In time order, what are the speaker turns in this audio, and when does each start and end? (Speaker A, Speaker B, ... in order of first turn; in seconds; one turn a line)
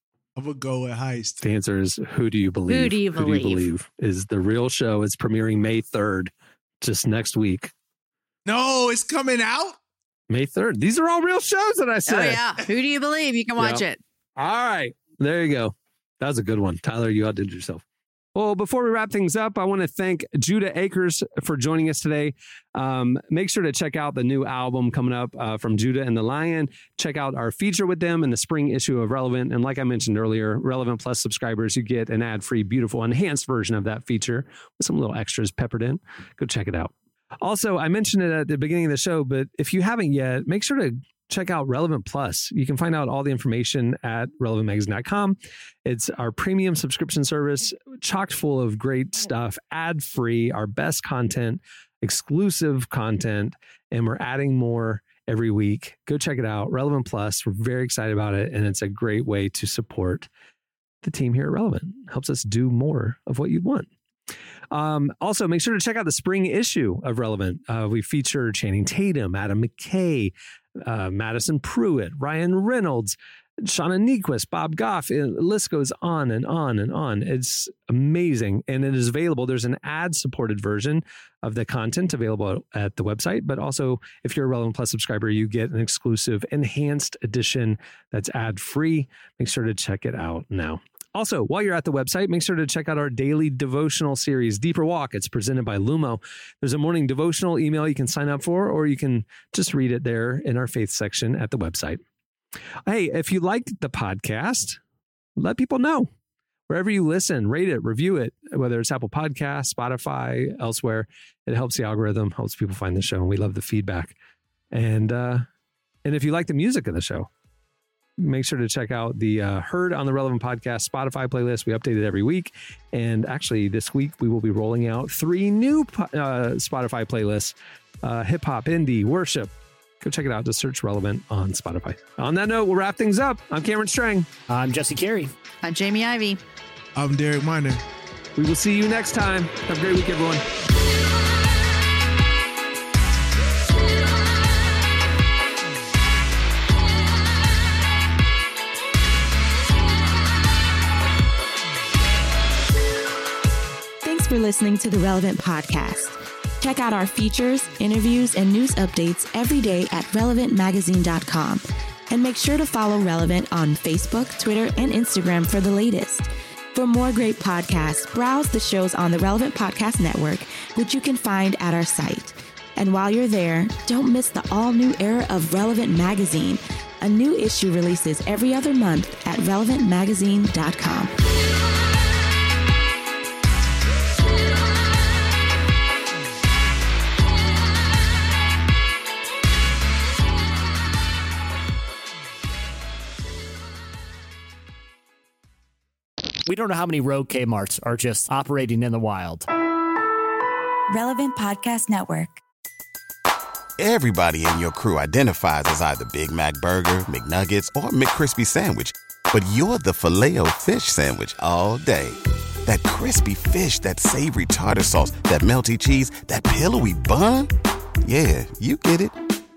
Speaker A: 0.3-1.4
Speaker B: 1.4-7.7
Speaker C: 2.7-3.6
Speaker A: 8.4-9.8
Speaker B: 10.3-12.4
Speaker C: 12.1-14.0
Speaker B: 13.6-13.8
Speaker B: 14.4-17.8
Speaker B: 18.3-60.3
Speaker B: 61.0-63.9
Speaker B: 64.7-102.0
Speaker B: 102.8-104.8
Speaker B: 105.4-106.1
Speaker B: 106.7-114.1
Speaker B: 114.7-115.5
Speaker B: 116.0-117.3
Speaker B: 118.2-134.3
Speaker D: 134.5-135.3
Speaker C: 135.6-136.4
Speaker A: 136.9-137.8
Speaker B: 138.3-140.4
Speaker E: 154.0-181.1
Speaker D: 196.4-199.5
Speaker E: 200.9-202.4
Speaker F: 203.8-217.5
Speaker F: 218.0-219.1